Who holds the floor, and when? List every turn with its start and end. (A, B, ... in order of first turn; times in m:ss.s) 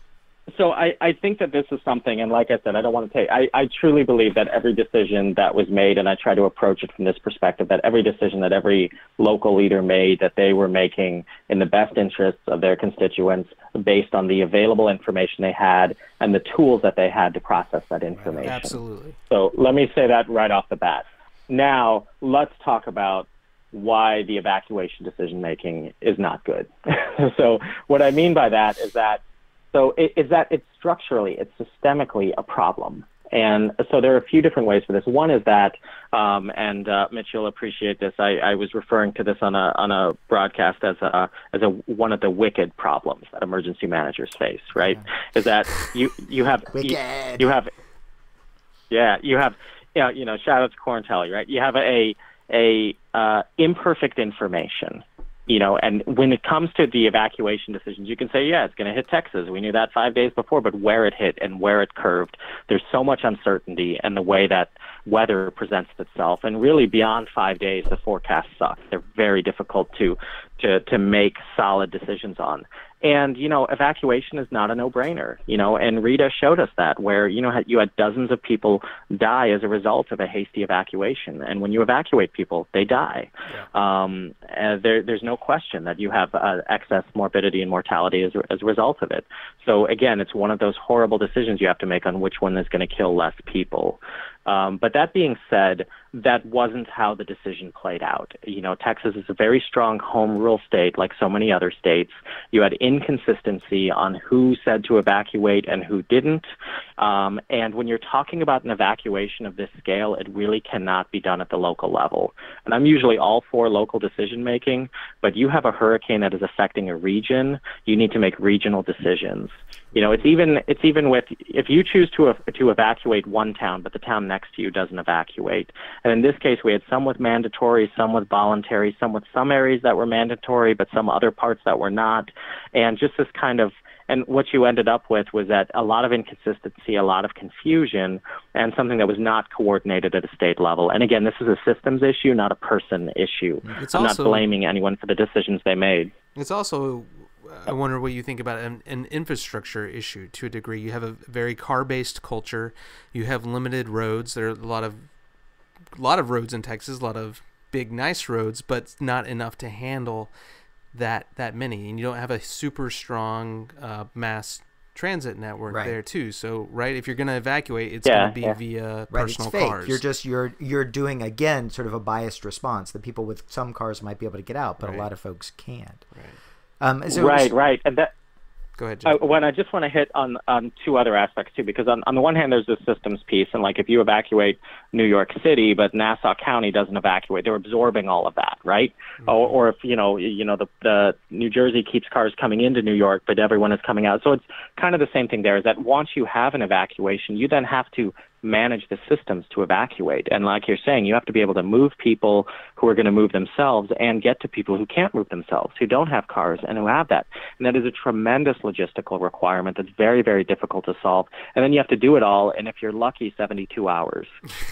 0:00.5-0:18.8 A
0:18.2-0:18.6 B
0:18.4-0:19.2 C
0:19.3-0:29.2 A
0:29.7-0:47.7 A
0:46.7-0:47.5 B
0:48.9-1:46.4 A
1:47.0-2:26.1 A
2:23.8-2:24.5 C
2:26.4-2:35.1 C
2:35.9-2:40.3 C
2:40.9-2:50.0 C
2:45.7-2:46.0 B
2:48.0-2:48.6 A
2:49.1-2:56.0 B
2:54.8-2:55.1 C
2:56.8-2:57.5 B
2:57.1-2:58.1 A
2:58.8-2:59.2 C
2:59.0-3:34.3 A